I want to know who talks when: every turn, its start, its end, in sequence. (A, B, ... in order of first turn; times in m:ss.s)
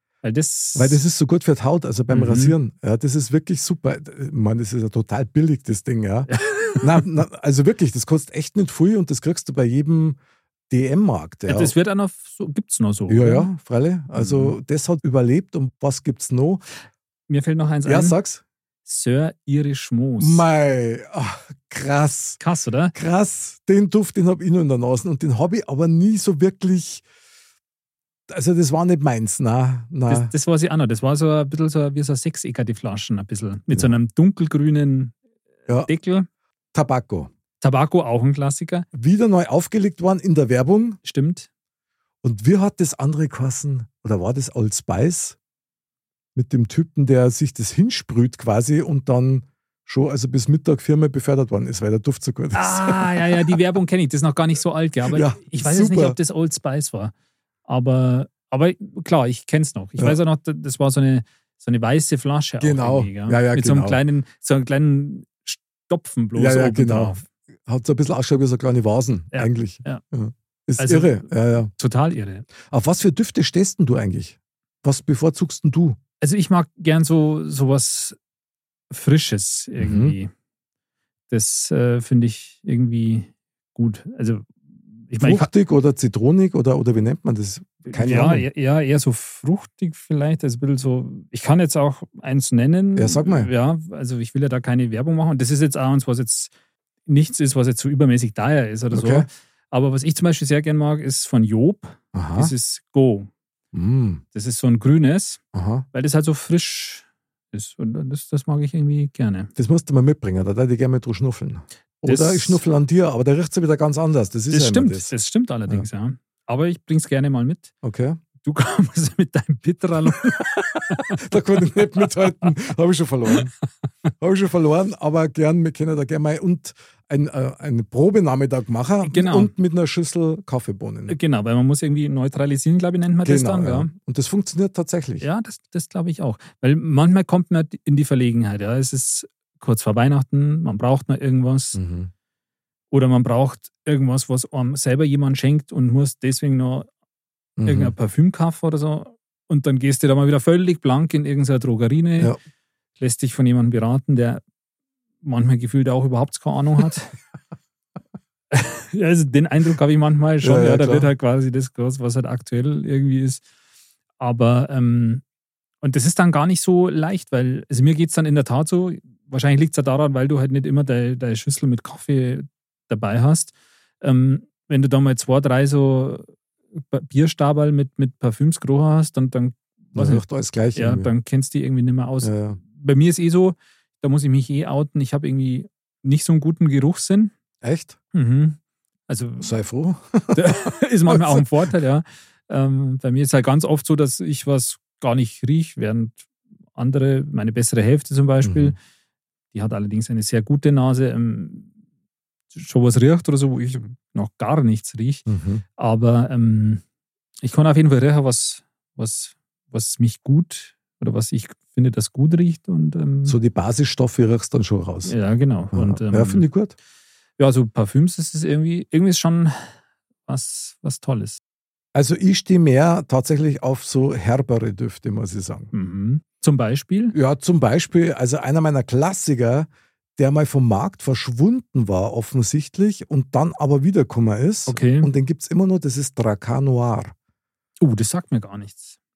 0:00.2-0:01.0 A
0:00.8-0:10.2 B
0:02.1-0:02.6 A
0:06.3-0:06.9 A
0:10.7-0:11.8 B
0:11.5-0:13.5 A
0:13.1-0:16.6 B
0:14.2-0:14.6 A
0:17.3-0:18.2 A
0:17.9-0:18.4 B
0:18.9-0:20.5 A
0:20.2-0:22.4 B
0:22.4-0:23.0 A
0:22.9-0:27.0 B
0:28.3-0:30.3 B
0:30.1-0:35.2 A
0:33.7-0:34.0 B
0:35.7-0:36.3 A
0:36.7-0:37.3 B
0:37.6-0:38.9 A
0:38.9-0:41.0 B
0:41.0-0:41.5 A
0:42.2-0:45.4 B
0:46.4-0:53.6 B
0:52.5-0:57.1 A
0:55.1-0:56.2 B
0:57.7-1:07.2 A
1:02.6-1:04.0 B
1:06.4-1:11.7 B
1:09.3-1:10.0 A
1:10.8-1:12.5 A
1:12.6-1:16.0 B
1:16.2-1:18.2 A
1:18.9-1:20.3 A
1:19.8-1:20.2 B
1:21.3-1:24.5 A
1:25.1-1:25.5 A
1:25.2-1:28.4 B
1:27.9-1:36.5 A
1:33.0-1:33.5 B
1:37.1-1:43.3 A
1:38.9-1:39.3 B
1:42.1-1:42.5 B
1:43.7-1:44.2 B
1:44.3-1:45.4 A
1:45.5-1:45.9 B
1:45.9-1:49.5 A
1:49.6-1:55.1 B
1:52.1-1:52.6 A
1:54.5-1:57.7 A
1:57.8-1:58.2 B
1:58.4-2:01.2 A
2:01.1-2:03.5 B
2:02.0-2:02.5 A
2:04.2-2:11.2 B
2:09.0-2:09.5 A
2:11.1-2:13.9 A
2:13.2-2:15.3 B
2:15.2-2:21.8 A
2:21.8-2:22.1 B
2:22.9-2:26.9 A
2:27.6-2:27.9 B
2:27.6-2:32.3 A
2:33.0-2:34.4 A
2:35.2-2:37.2 A
2:38.5-2:43.4 A
2:40.4-2:41.1 B
2:44.2-2:45.2 A
2:45.8-3:00.2 A
3:00.0-3:01.1 B
3:00.7-3:07.3 A
3:02.2-3:02.6 B
3:07.6-3:08.0 B
3:08.1-3:09.5 A
3:09.4-3:10.5 B
3:10.3-3:16.2 A
3:11.1-3:11.5 B
3:16.8-3:18.8 A
3:18.4-3:18.8 B
3:19.5-3:21.7 A
3:22.5-3:25.3 A
3:25.3-3:25.6 B
3:25.8-3:26.8 A
3:27.4-3:33.4 A
3:33.3-3:35.2 B
3:35.0-3:36.5 A
3:35.7-3:36.7 B
3:37.4-3:39.7 A
3:40.3-3:41.4 A
3:41.9-3:45.7 B
3:45.7-3:47.2 A
3:47.1-3:57.1 B
3:54.7-3:55.1 A
3:57.8-3:59.0 A